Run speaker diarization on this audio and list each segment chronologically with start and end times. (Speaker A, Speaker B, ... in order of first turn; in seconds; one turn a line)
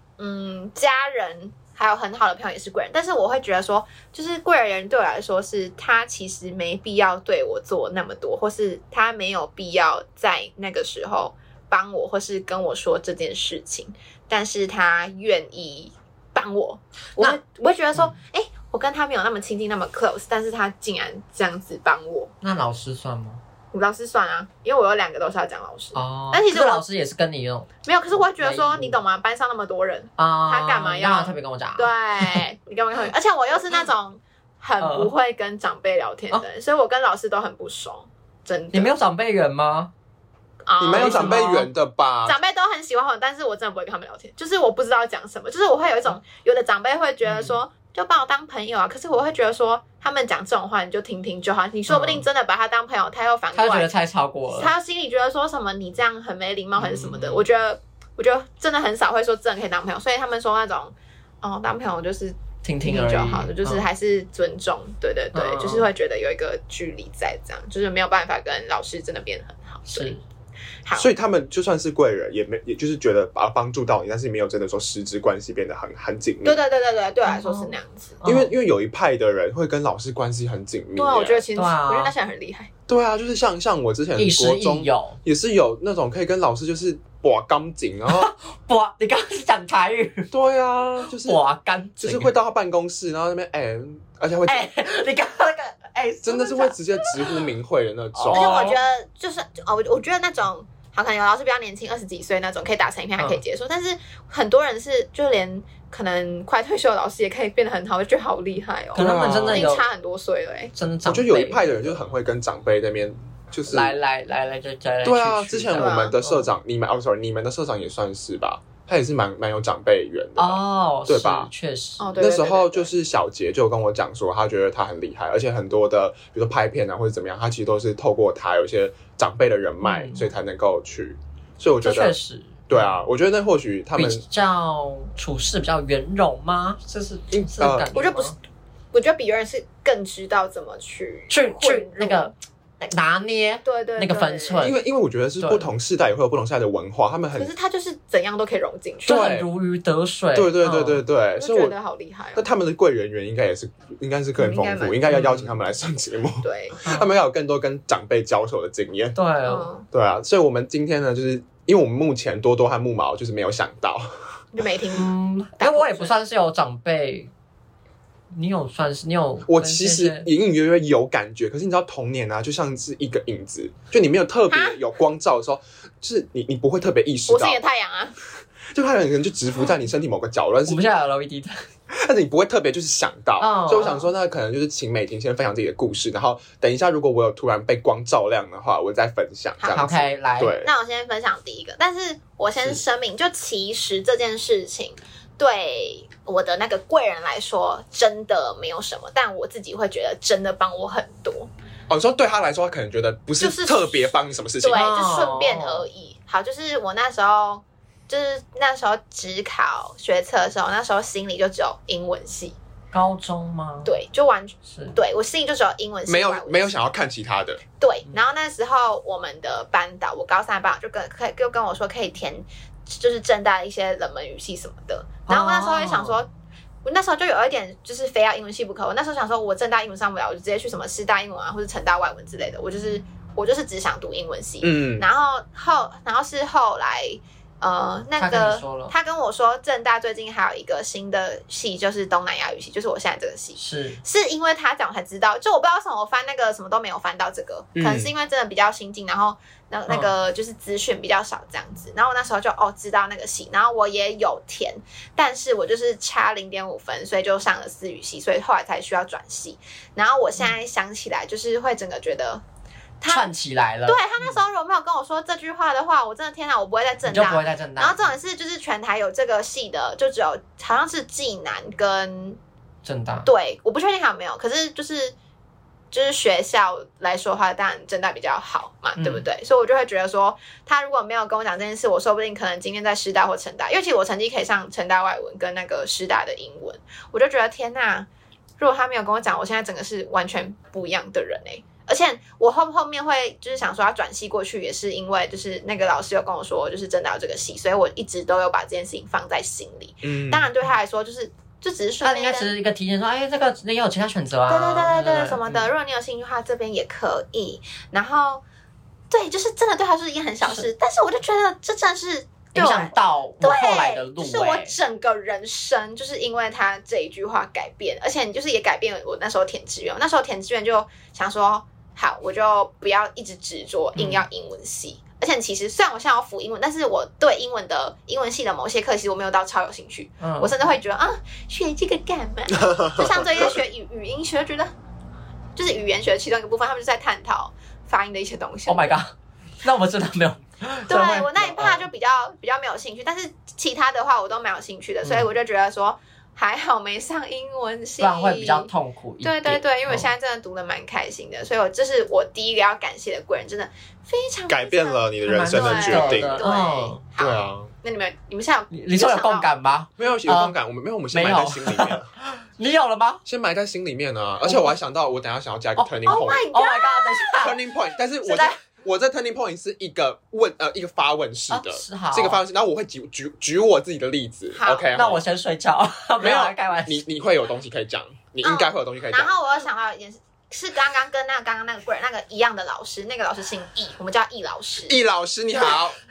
Speaker A: 0.2-22.3
Speaker B: 22.4-23.4
Speaker A: 23.7-26.8
Speaker B: 25.9-29.0
Speaker A: 27.8-38.9
Speaker B: 30.2-32.4
Speaker B: 34.8-35.1
Speaker B: 38.7-39.9
Speaker A: 40.7-41.5
Speaker C: 40.8-42.4
Speaker B: 40.9-41.7
Speaker A: 42.2-53.9
Speaker B: 47.2-47.6
Speaker B: 51.9-52.3
Speaker B: 53.5-54.7
Speaker A: 54.5-70.1
Speaker B: 56.8-57.4
Speaker B: 62.6-63.8
Speaker B: 65.3-65.9
Speaker B: 69.9-70.2
Speaker A: 70.8-71.1
Speaker C: 71.0-76.6
Speaker A: 76.4-78.2
Speaker B: 77.2-78.5
Speaker C: 78.2-81.4
Speaker A: 81.0-82.7
Speaker B: 81.6-82.1
Speaker C: 82.9-88.3
Speaker B: 84.2-85.2
Speaker B: 88.1-90.3
Speaker C: 90.3-91.4
Speaker B: 91.1-92.3
Speaker C: 92.0-94.7
Speaker B: 94.5-97.4
Speaker C: 96.2-98.7
Speaker B: 98.2-98.8
Speaker A: 98.3-110.7
Speaker B: 108.9-109.9
Speaker C: 109.0-109.7
Speaker B: 110.7-112.0
Speaker C: 111.1-113.9
Speaker B: 113.7-116.5
Speaker C: 115.0-121.5
Speaker A: 115.8-116.1
Speaker B: 120.4-122.1
Speaker A: 122.0-122.9
Speaker C: 122.2-132.2
Speaker B: 129.8-130.3
Speaker B: 131.8-132.9
Speaker C: 132.7-134.2
Speaker B: 133.9-138.3
Speaker C: 137.3-137.9
Speaker A: 137.9-138.3
Speaker A: 138.9-142.3
Speaker B: 141.3-144.8
Speaker A: 143.6-144.7
Speaker C: 144.6-147.5
Speaker B: 145.4-145.7
Speaker A: 147.4-149.2
Speaker B: 149.1-151.1
Speaker C: 149.1-149.5
Speaker C: 150.3-151.8
Speaker A: 151.4-152.5
Speaker C: 152.3-159.2
Speaker A: 154.4-155.0
Speaker B: 155.1-155.6
Speaker A: 156.4-156.8
Speaker B: 156.8-157.1
Speaker B: 159.2-159.7
Speaker A: 159.4-159.9
Speaker C: 159.9-164.1
Speaker A: 164.5-166.1
Speaker B: 165.0-167.3
Speaker B: 168.3-170.3
Speaker C: 169.5-177.6
Speaker A: 174.5-174.8
Speaker A: 177.3-178.2
Speaker C: 178.7-180.8
Speaker B: 180.7-181.7
Speaker C: 181.9-190.7
Speaker B: 183.4-184.0
Speaker A: 189.6-201.5
Speaker B: 189.7-190.6
Speaker C: 201.9-204.8
Speaker A: 203.4-212.6
Speaker B: 204.7-205.8
Speaker B: 212.9-213.9
Speaker A: 213.8-216.8
Speaker B: 214.7-215.0
Speaker C: 216.1-217.6
Speaker A: 217.8-226.3
Speaker B: 225.3-226.2
Speaker A: 226.8-262.4
Speaker C: 234.6-235.1
Speaker B: 238.2-238.9
Speaker B: 243.6-244.0
Speaker C: 247.8-248.1
Speaker B: 249.9-250.1
Speaker A: 263.0-263.3
Speaker B: 263.1-264.0
Speaker A: 263.9-272.4
Speaker B: 267.1-268.1
Speaker B: 272.8-273.3
Speaker A: 273.2-275.1
Speaker A: 275.9-288.1
Speaker B: 279.0-279.2
Speaker A: 288.6-302.5
Speaker C: 300.0-300.5
Speaker B: 302.0-305.7
Speaker A: 304.5-308.4
Speaker A: 309.1-334.7
Speaker B: 312.6-314.8
Speaker B: 323.9-324.3
Speaker B: 330.2-330.6
Speaker C: 332.6-333.4
Speaker A: 335.6-339.0
Speaker B: 338.7-341.9
Speaker A: 340.9-348.7
Speaker B: 345.0-345.3
Speaker B: 348.0-350.1
Speaker A: 349.2-359.5
Speaker C: 354.5-356.4
Speaker B: 355.2-357.0
Speaker C: 357.2-357.7
Speaker B: 358.7-360.6
Speaker C: 360.0-362.1
Speaker B: 361.1-363.2
Speaker C: 363.2-366.5
Speaker B: 364.4-364.7
Speaker B: 365.8-367.6
Speaker A: 366.1-367.5
Speaker C: 367.4-375.2
Speaker B: 368.2-368.5
Speaker B: 371.5-372.4
Speaker A: 374.5-374.9
Speaker B: 374.9-377.1
Speaker C: 376.2-379.3
Speaker A: 378.4-384.9
Speaker C: 384.9-386.0